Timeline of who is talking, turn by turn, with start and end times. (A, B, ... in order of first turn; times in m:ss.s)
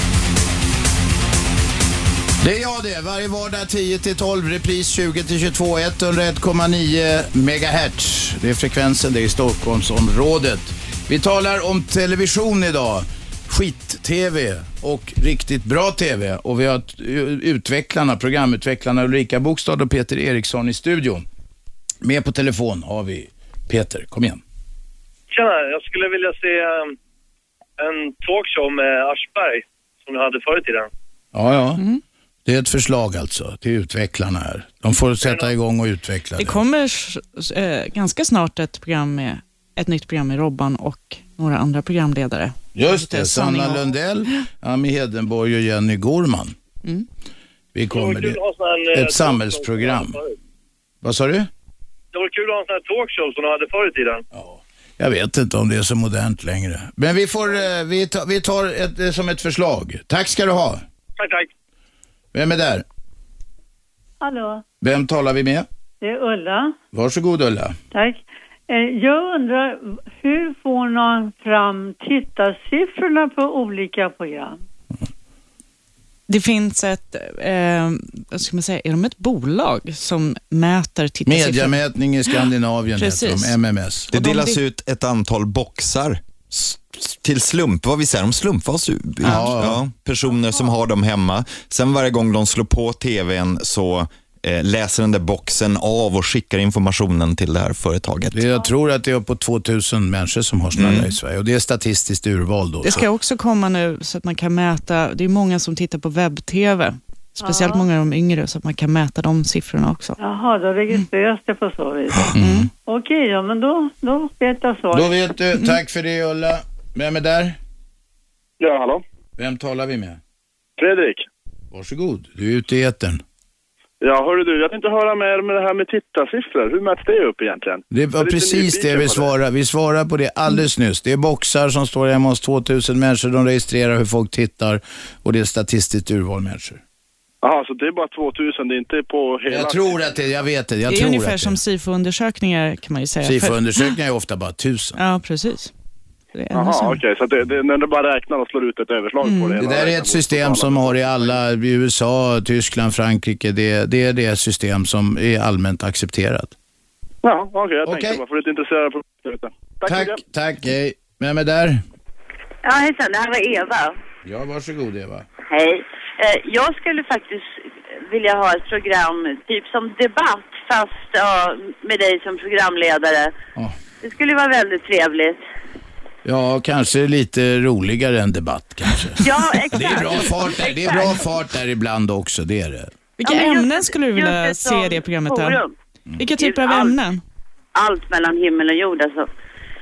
0:02.4-0:21.2 A
0:22.0-0:24.4 A
0:25.3-0:26.9 B
0:27.8-0:30.9 B
0:31.3-0:31.8 A
0:32.4-0:36.6 A
0:36.4-0:44.4 C
0:42.7-0:46.5 A
0:47.7-0:48.4 A
0:47.9-0:50.3 B
0:48.9-0:50.2 A
0:51.0-0:51.5 A
0:52.1-0:54.2 B
0:54.3-1:00.8 A
1:01.2-1:01.5 B
1:02.3-1:02.8 A
1:04.2-1:04.6 D
1:04.8-1:05.6 A
1:06.0-1:06.7 D
1:06.9-1:07.8 A
1:07.9-1:14.6 D
1:16.3-1:21.8 C
1:21.2-1:24.1 A
1:23.0-1:23.6 C
1:24.1-1:24.6 C
1:24.1-1:38.4 E
1:29.2-1:29.8 A
1:29.2-1:29.5 C
1:38.3-1:43.1 A
1:40.8-1:41.1 E
1:42.8-1:50.2 C
1:47.4-1:47.8 D
1:50.2-1:52.3 D
1:52.3-1:52.7 A
1:52.4-1:52.7 C
1:52.9-1:55.2 D
1:54.9-1:57.6 A
1:58.6-1:59.0 F
1:59.4-2:00.2 A
2:00.8-2:01.3 F
2:01.7-2:03.2 A
2:04.0-2:09.3 F
2:07.9-2:16.8 A
2:17.4-2:20.2 F
2:19.5-2:21.6 A
2:20.9-2:23.9 C
2:23.2-2:25.0 A
2:25.0-2:25.7 C
2:26.3-2:27.0 C
2:26.5-2:31.4 F
2:29.2-2:29.6 C
2:29.6-2:36.5 A
2:37.2-2:40.2 F
2:37.8-2:38.2 A
2:39.8-2:41.8 A
2:42.6-2:44.0 G
2:44.2-2:45.3 A
2:45.5-2:53.3 G
2:54.0-2:55.4 G
2:56.2-3:02.9 A
2:59.2-3:01.2 G
3:03.2-3:05.6 C
3:03.2-3:05.7 G
3:06.2-3:07.2 C
3:06.4-3:07.0 G
3:07.7-3:09.3 G